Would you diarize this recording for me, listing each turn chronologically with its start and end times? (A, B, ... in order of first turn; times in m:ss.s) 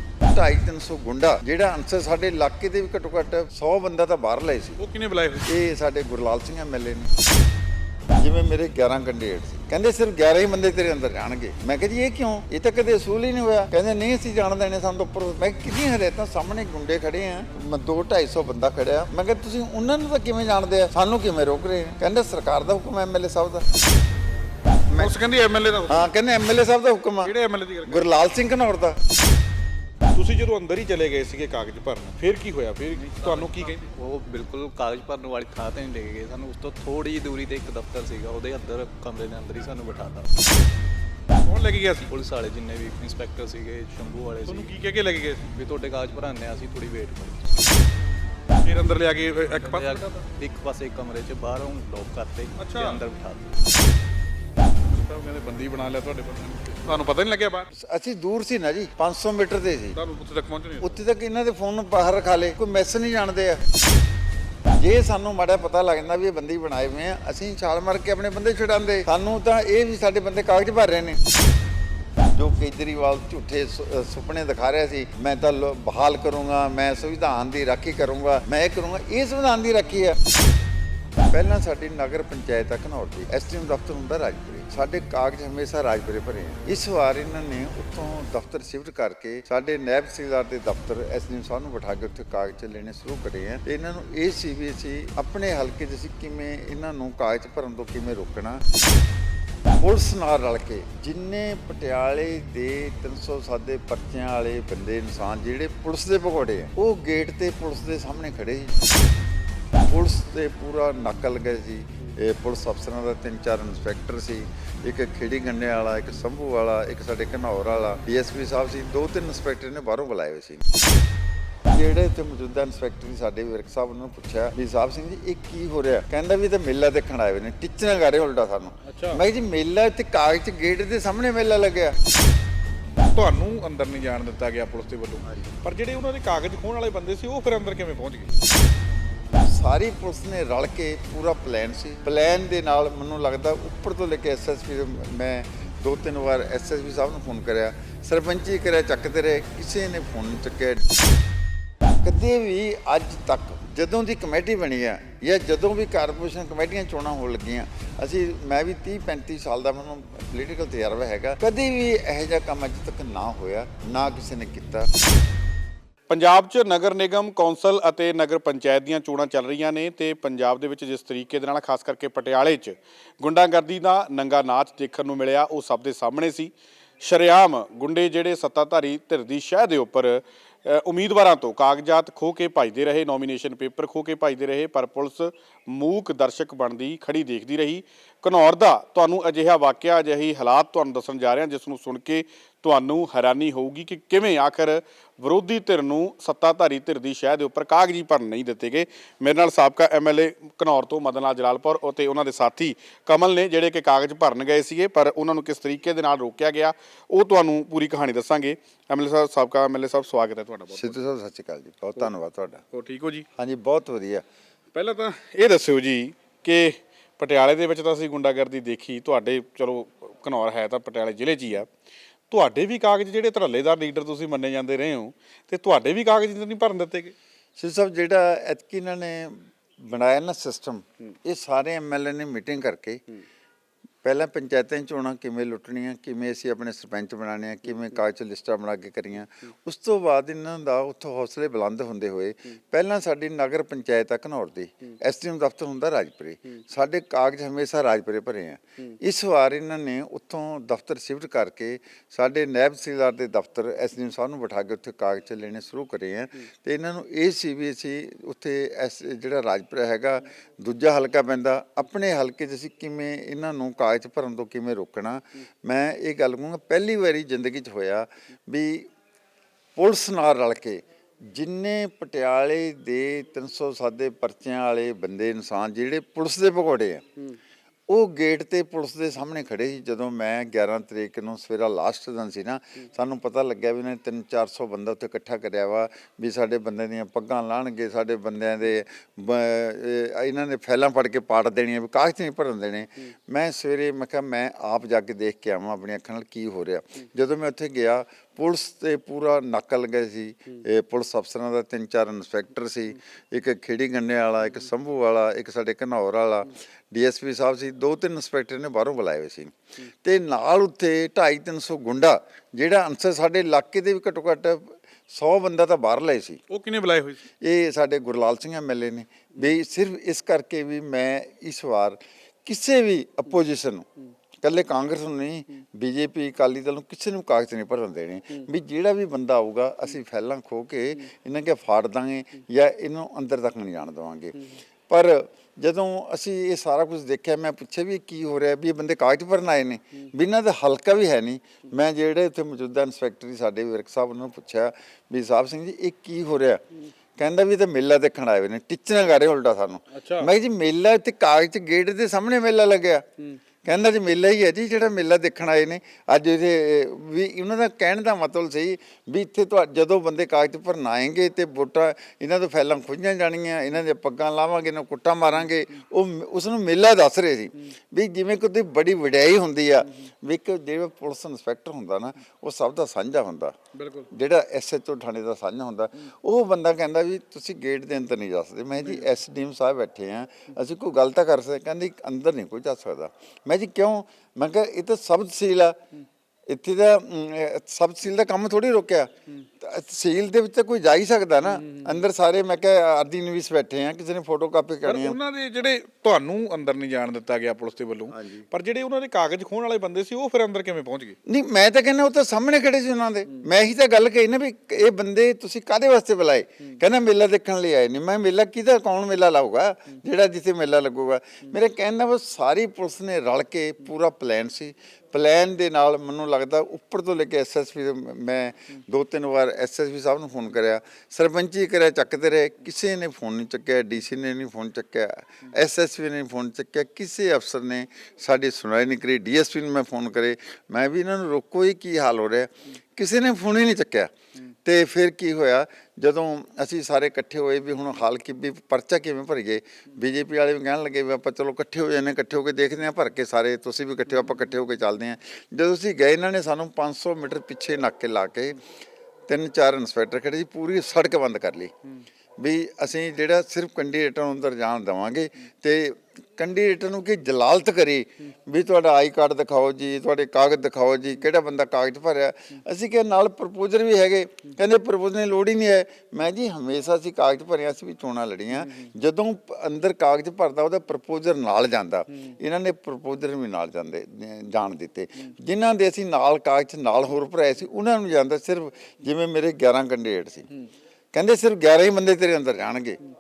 0:00.3-0:04.8 A
0:04.8-0:05.5 B
0:05.5-0:07.1 A
0:08.2-0:23.6 A
0:24.9-0:25.2 A
0:25.0-0:26.1 B
0:25.9-0:27.3 A
0:27.2-0:28.2 B
0:27.9-0:29.0 A
0:30.1-0:33.8 B
0:33.2-0:40.3 C
0:41.4-0:42.1 B
0:42.1-0:44.7 C
0:44.4-0:45.5 B
0:45.5-0:47.6 C
0:48.6-0:50.2 B
0:49.6-0:53.5 C
0:52.6-0:53.0 B
0:54.9-0:57.7 B
0:57.7-1:00.0 A
1:00.0-1:01.0 B
1:00.8-1:03.6 A
1:04.8-1:11.2 A
1:12.3-1:20.2 A
1:21.3-1:38.6 A
1:39.8-1:48.8 A
1:49.9-2:00.6 A
2:01.7-2:12.0 A
2:08.8-2:09.2 B
2:13.1-2:18.3 B
2:19.5-2:30.8 A
2:32.0-2:44.9 A
2:46.1-3:31.0 B
3:30.7-3:32.6 A
3:32.7-3:33.3 B
3:33.4-3:34.2 A
3:34.7-3:41.7 B
3:42.3-3:47.1 B
3:47.6-3:53.0 A
3:54.0-4:28.9 A
4:29.8-4:37.0 A
4:37.9-5:16.4 A
5:16.5-5:17.2 B
5:17.4-5:23.9 A
5:24.4-5:46.6 A
5:47.2-5:53.0 A
5:49.9-5:50.3 B
5:53.6-6:13.5 A
6:13.7-6:14.1 B
6:14.1-6:25.8 A
6:26.5-6:35.2 A
6:31.4-6:32.0 B
6:34.8-6:41.2 B
6:38.1-6:38.4 A
6:41.3-7:14.1 A
7:14.6-7:28.6 A
7:29.3-7:31.7 A
7:32.4-8:00.5 A
8:01.1-8:03.0 A